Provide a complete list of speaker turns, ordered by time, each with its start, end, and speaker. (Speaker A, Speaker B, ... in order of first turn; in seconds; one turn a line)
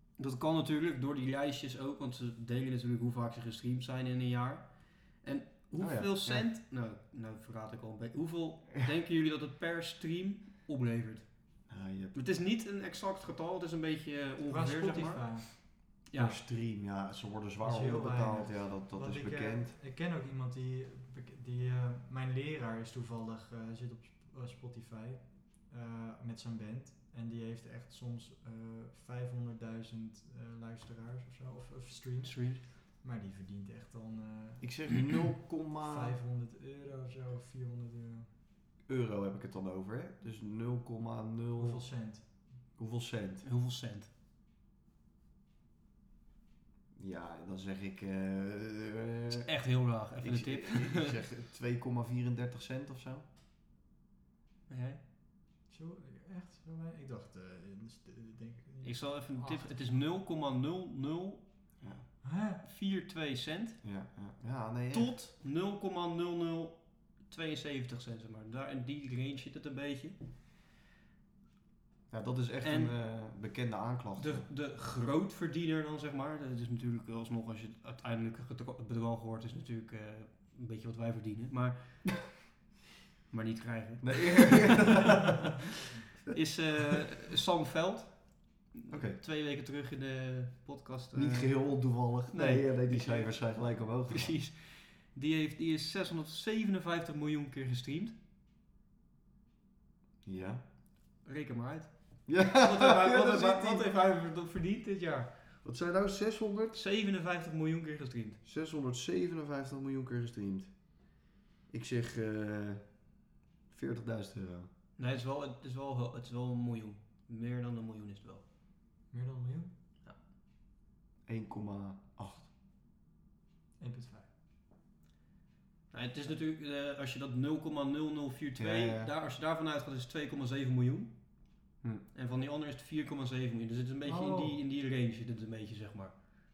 Speaker A: 0.2-11.4
Speaker B: 5.8-6.5
Speaker B: 11.7-12.2
Speaker A: 12.2-16.4
Speaker C: 14.5-15.6
Speaker B: 16.1-19.8
Speaker C: 17.6-35.0
Speaker A: 32.2-32.6
Speaker B: 34.6-36.2
Speaker C: 35.8-38.3
Speaker B: 38.9-41.8
Speaker C: 41.6-42.2
Speaker B: 42.8-43.5
Speaker A: 43.4-44.1
Speaker B: 47.0-49.5
Speaker A: 49.5-51.2
Speaker B: 50.2-53.2
Speaker A: 54.7-55.0
Speaker C: 55.7-59.8
Speaker A: 58.8-61.4
Speaker B: 61.8-62.1
Speaker C: 62.2-62.6
Speaker A: 62.6-63.8
Speaker B: 63.8-65.2
Speaker A: 64.9-70.2
Speaker B: 72.1-74.5
Speaker A: 72.6-72.9
Speaker A: 74.2-82.4
Speaker A: 83.3-85.4
Speaker B: 84.0-85.5
Speaker A: 86.3-93.5
Speaker B: 88.9-89.2
Speaker B: 91.1-94.3
Speaker A: 94.1-98.1
Speaker B: 100.2-100.6
Speaker A: 101.2-105.3
Speaker B: 102.3-103.9
Speaker B: 105.6-106.8
Speaker A: 106.8-108.4
Speaker B: 108.5-110.7
Speaker B: 111.7-112.9
Speaker B: 113.7-114.7
Speaker A: 115.0-118.4
Speaker C: 119.1-119.7
Speaker B: 121.3-122.5
Speaker C: 123.8-124.3
Speaker A: 125.9-131.1
Speaker B: 128.6-129.1
Speaker A: 132.1-136.1
Speaker C: 134.1-134.6